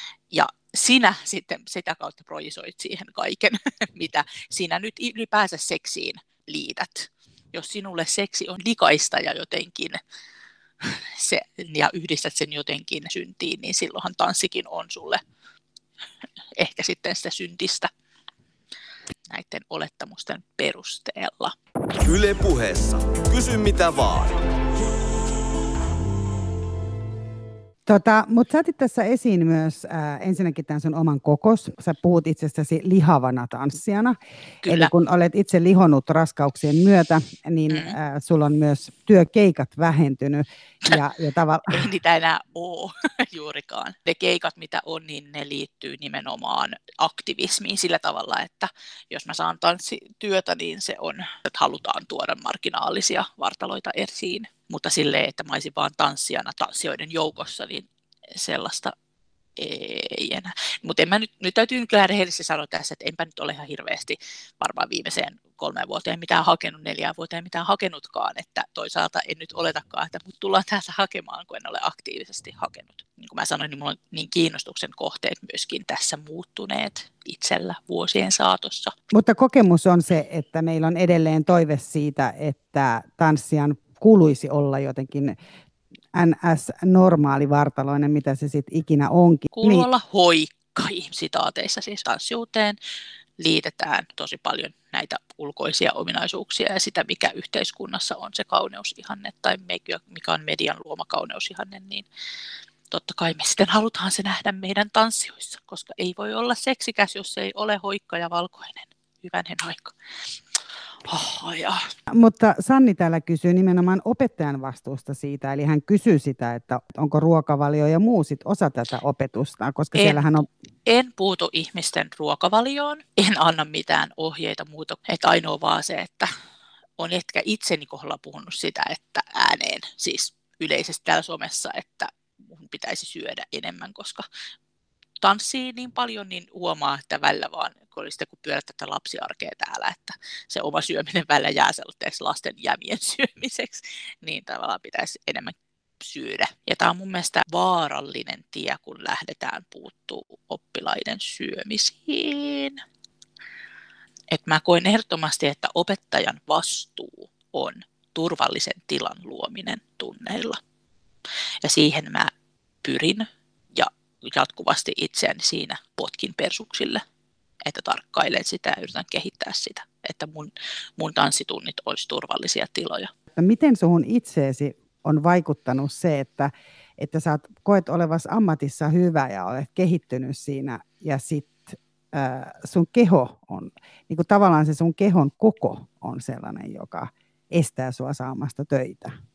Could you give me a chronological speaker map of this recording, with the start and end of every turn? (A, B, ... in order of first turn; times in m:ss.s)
0:00.3-0:10.0 A
0:10.8-0:15.2 A
0:16.6-0:17.9 A
0:19.3-0:21.6 A
0:22.0-0:24.5 B
0:27.9-0:41.9 C
0:34.6-0:34.9 A
0:37.7-0:38.0 A
0:41.7-0:58.9 A
0:59.6-1:18.9 A
1:19.1-1:25.4 C
1:26.1-1:29.9 C
1:29.5-1:32.8 A
1:33.4-1:42.1 A
1:42.9-1:49.9 A
1:51.1-1:51.9 A
1:52.1-2:00.4 C
2:00.0-2:06.3 A
2:07.0-2:14.2 A
2:15.2-2:32.8 A
2:34.3-2:40.6 A
2:41.6-2:42.3 A
2:42.8-2:47.0 A
2:47.6-2:53.1 A
2:53.4-3:09.1 C